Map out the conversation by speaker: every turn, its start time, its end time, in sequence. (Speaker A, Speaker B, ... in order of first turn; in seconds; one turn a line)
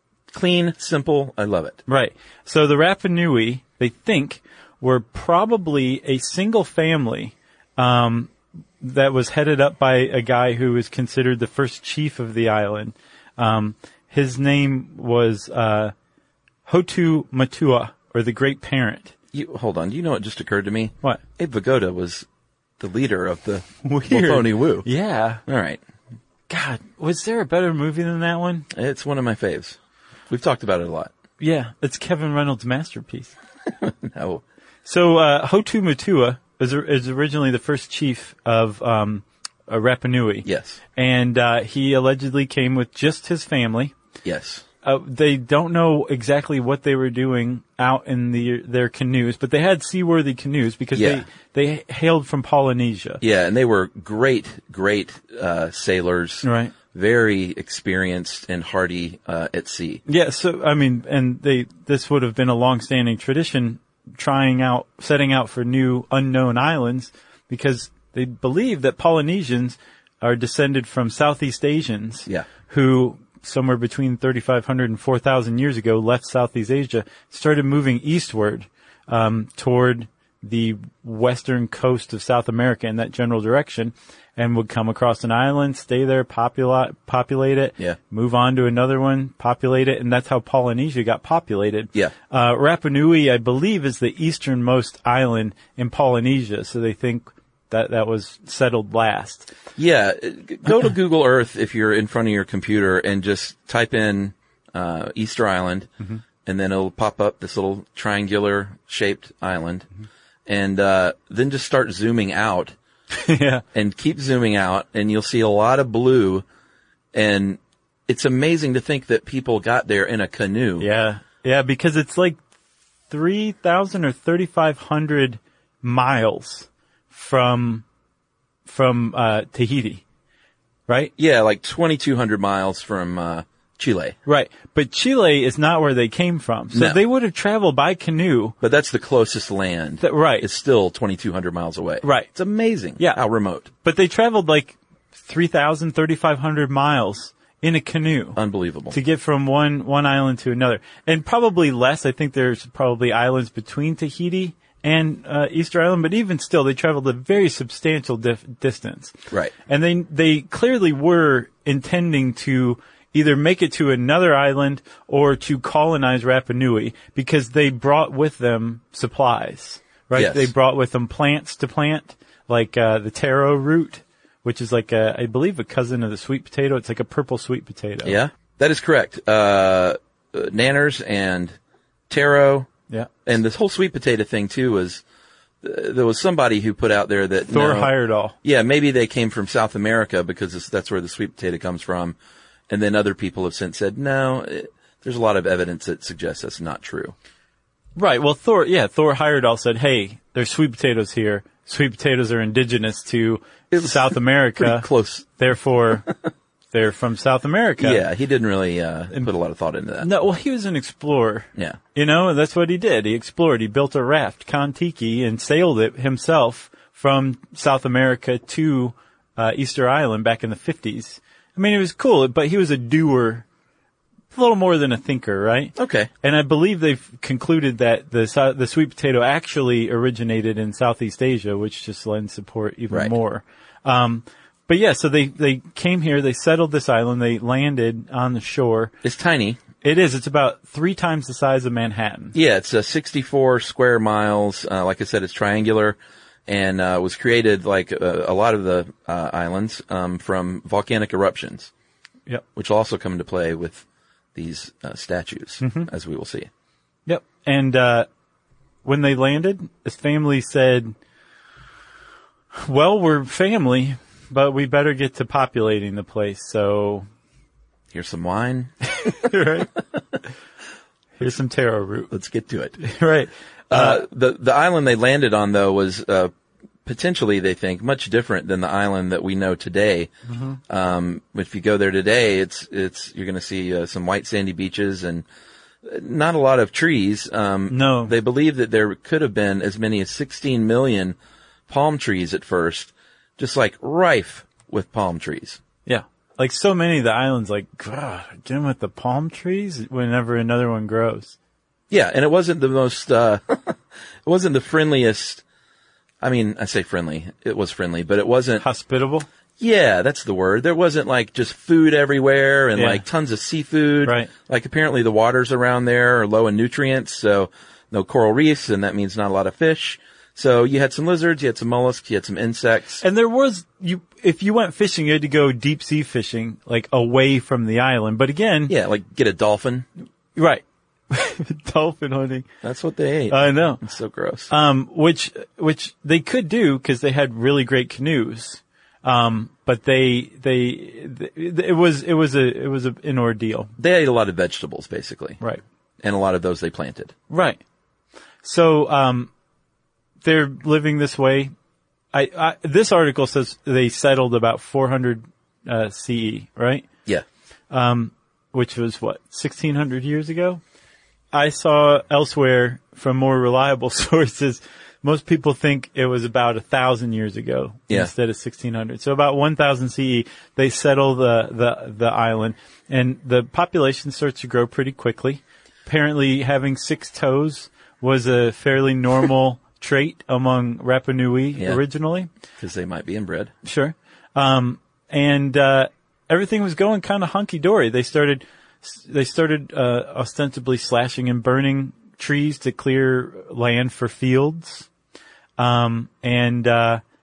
Speaker A: 0.3-1.8
Speaker B: 1.9-15.9
Speaker B: 16.6-19.1
Speaker A: 19.3-22.2
Speaker A: 22.8-24.9
Speaker B: 23.8-25.4
Speaker A: 25.5-25.8
Speaker B: 26.5-28.7
Speaker A: 28.7-29.8
Speaker A: 30.3-31.1
Speaker B: 31.4-33.3
Speaker A: 33.8-34.4
Speaker B: 34.9-43.9
Speaker A: 40.5-40.8
Speaker A: 44.2-44.6
Speaker B: 44.8-53.2
Speaker A: 51.0-51.2
Speaker A: 53.2-60.0
Speaker B: 56.4-56.7
Speaker B: 60.1-99.5
Speaker A: 99.8-105.9
Speaker A: 106.4-109.9
Speaker A: 110.5-112.8
Speaker B: 113.1-113.6
Speaker A: 113.7-116.5
Speaker A: 117.1-120.9
Speaker B: 120.8-122.4
Speaker B: 123.1-127.8
Speaker B: 128.7-130.0
Speaker B: 130.9-131.1
Speaker A: 131.2-134.2
Speaker B: 134.2-138.6
Speaker A: 136.7-137.0
Speaker A: 138.6-143.7
Speaker B: 140.0-140.5
Speaker B: 142.0-142.3
Speaker B: 143.0-143.2
Speaker B: 143.8-148.4
Speaker A: 148.4-149.0
Speaker B: 148.9-178.2
Speaker A: 170.1-170.5
Speaker A: 178.0-181.6
Speaker A: 182.1-182.7
Speaker A: 183.2-185.0
Speaker A: 185.6-187.9
Speaker B: 187.5-188.3
Speaker A: 188.4-192.2
Speaker A: 192.7-197.1
Speaker B: 198.0-206.1
Speaker A: 203.7-205.3
Speaker B: 206.7-208.1
Speaker A: 207.8-210.1
Speaker B: 210.0-223.4
Speaker B: 224.3-238.9
Speaker A: 225.8-226.1
Speaker A: 232.9-233.1
Speaker A: 239.0-239.6
Speaker B: 239.8-242.3
Speaker A: 242.3-251.7
Speaker A: 252.6-256.5
Speaker B: 255.6-255.9
Speaker B: 257.1-258.1
Speaker B: 258.9-260.9
Speaker B: 262.5-267.1
Speaker A: 267.9-269.1
Speaker B: 269.0-269.7
Speaker B: 271.2-272.1
Speaker A: 272.1-272.8
Speaker B: 272.8-274.0
Speaker A: 273.7-276.3
Speaker A: 276.9-280.1
Speaker B: 280.3-280.6
Speaker A: 280.7-285.2
Speaker A: 285.8-291.2
Speaker B: 287.7-288.1
Speaker A: 291.7-295.6
Speaker B: 295.9-301.4
Speaker A: 301.9-305.4
Speaker A: 306.2-308.6
Speaker B: 308.6-309.3
Speaker A: 309.6-323.0
Speaker B: 312.8-313.0
Speaker B: 314.1-314.3
Speaker B: 323.0-328.7
Speaker A: 328.7-329.9
Speaker B: 330.4-332.5
Speaker A: 332.6-334.5
Speaker B: 333.3-333.8
Speaker B: 334.5-343.7
Speaker A: 343.8-345.4
Speaker A: 346.0-347.1
Speaker B: 347.3-347.6
Speaker B: 348.4-349.3
Speaker B: 350.2-351.5
Speaker B: 352.1-356.9
Speaker B: 357.7-360.6
Speaker B: 361.3-382.3
Speaker A: 382.6-383.5
Speaker B: 383.6-394.9
Speaker B: 395.6-397.0